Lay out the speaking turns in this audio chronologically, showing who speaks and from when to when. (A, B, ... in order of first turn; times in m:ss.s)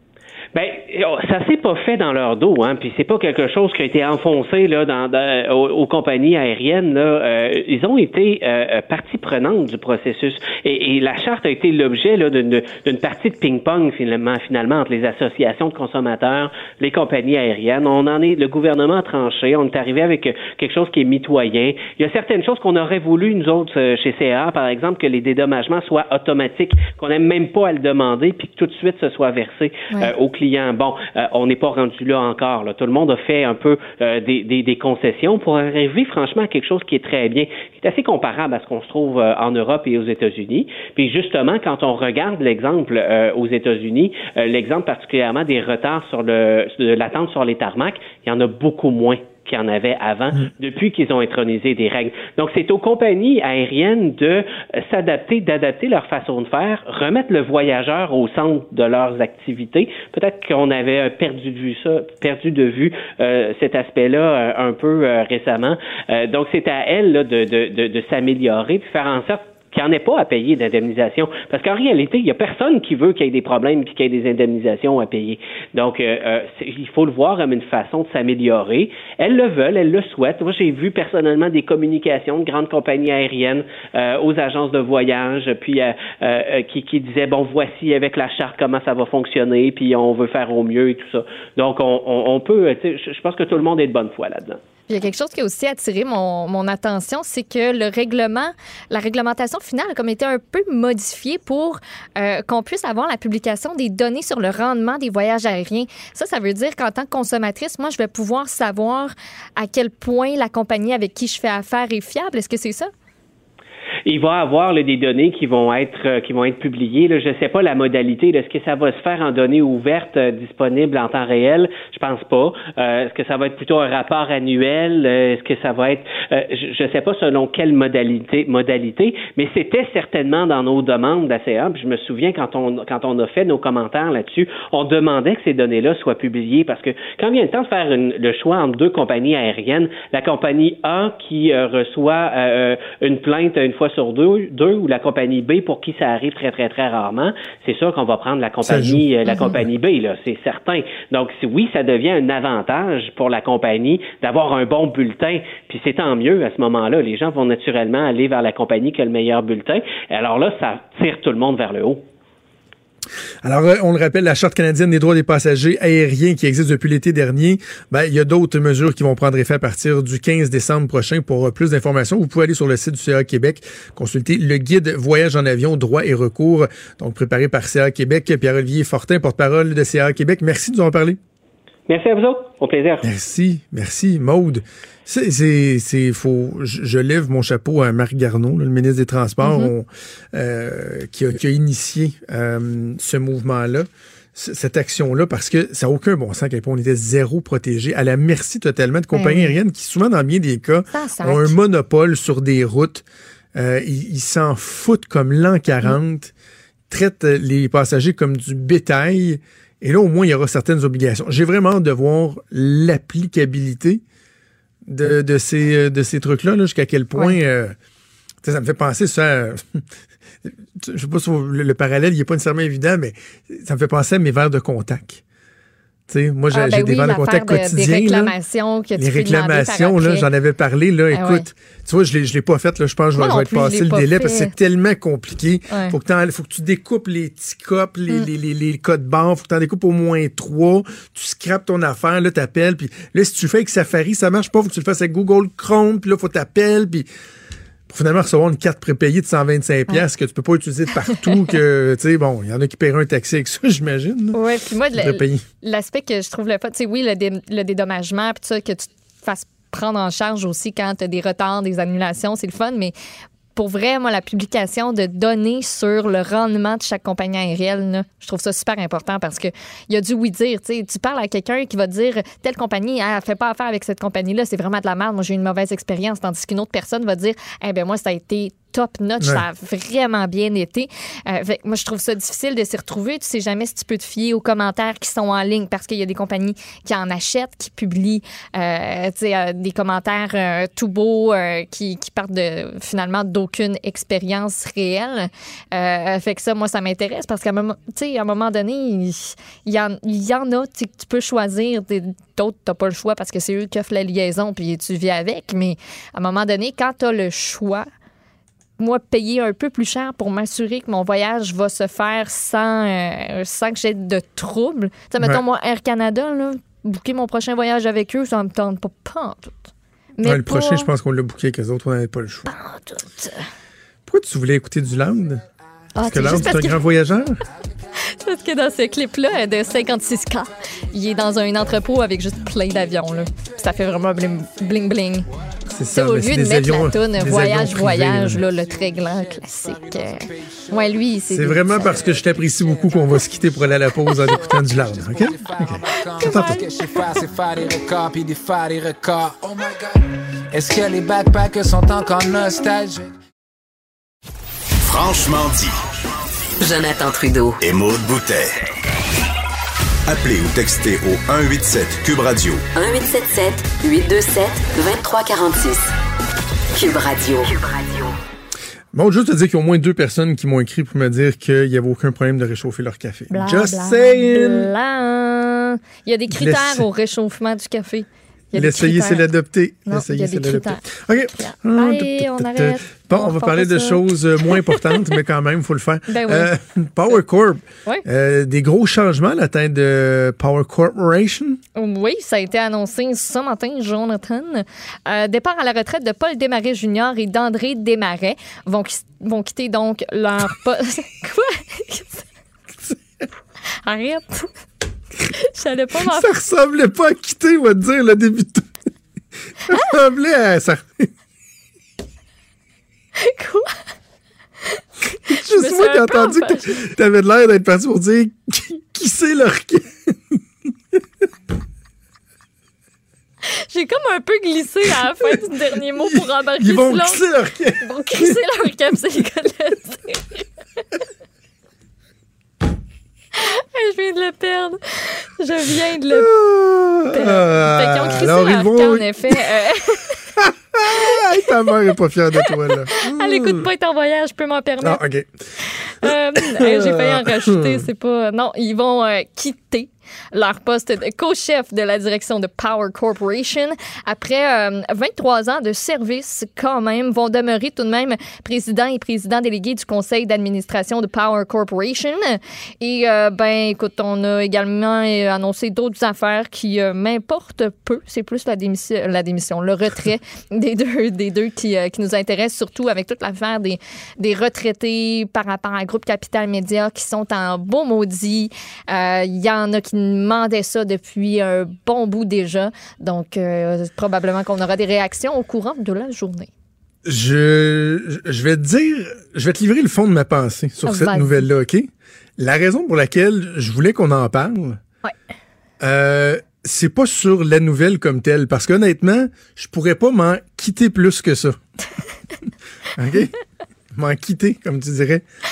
0:00.5-1:34.6 A
1:34.9-1:52.9 B
1:54.0-2:42.0 A
2:28.6-2:29.0 C
2:29.3-2:29.6 B
2:43.4-3:01.2 C
3:01.9-3:03.1 A
3:03.0-3:23.0 C
3:09.4-3:09.7 B
3:19.1-3:19.5 B
3:20.9-3:21.5 B
3:23.5-3:26.3 C
3:26.9-3:34.0 C
3:34.8-3:37.8 C
3:38.4-3:39.8 C
3:40.4-3:45.2 C
3:46.1-3:48.3 C
3:46.5-3:50.3 B
3:49.0-4:07.1 C
3:51.1-3:51.4 B
3:53.1-3:54.5 B
3:55.7-3:56.0 B
4:07.9-4:14.4 C
4:14.3-4:22.9 B
4:14.9-4:15.4 C
4:23.5-5:07.8 B
5:08.8-5:20.9 B
5:20.2-5:22.5 C
5:22.5-5:23.4 B
5:24.1-5:25.4 C
5:26.0-5:26.8 B
5:26.0-5:27.4 C
5:28.1-5:35.2 B
5:35.7-5:38.4 C
5:35.9-5:42.0 B
5:38.4-5:41.1 D
5:41.3-5:46.6 C
5:41.6-5:53.1 D
5:44.0-5:44.6 B
5:46.0-5:46.8 B
5:54.8-5:55.8 E
5:56.6-5:57.6 F
5:57.6-5:58.6 E
6:00.1-6:02.6 E
6:02.7-6:05.8 F
6:06.7-6:08.1 F
6:08.9-6:14.7 C
6:13.3-6:19.2 B
6:16.3-6:16.8 C
6:18.5-6:31.6 C
6:19.9-6:20.8 B
6:21.4-6:24.9 B
6:26.1-6:26.5 B
6:31.8-6:42.2 B
6:43.8-6:44.5 B
6:45.4-6:46.3 B
6:45.9-6:48.8 C
6:49.6-6:51.1 C
6:53.2-6:53.7 B
6:54.7-6:56.8 B
6:55.3-7:00.4 C
7:03.5-7:07.2 B
7:04.9-7:05.4 C
7:06.0-7:09.0 C
7:07.8-7:10.4 B
7:13.4-7:16.3 B
7:16.1-7:19.4 C
7:17.1-7:20.2 B
7:20.4-7:23.6 C
7:20.9-7:21.7 B
7:22.4-7:25.0 B
7:24.8-7:25.4 C
7:25.8-8:06.5 B
7:26.0-7:27.8 C
8:07.0-8:14.8 C
8:10.8-8:11.4 B
8:15.8-8:21.6 C
8:23.0-8:23.3 C
8:23.9-8:25.2 C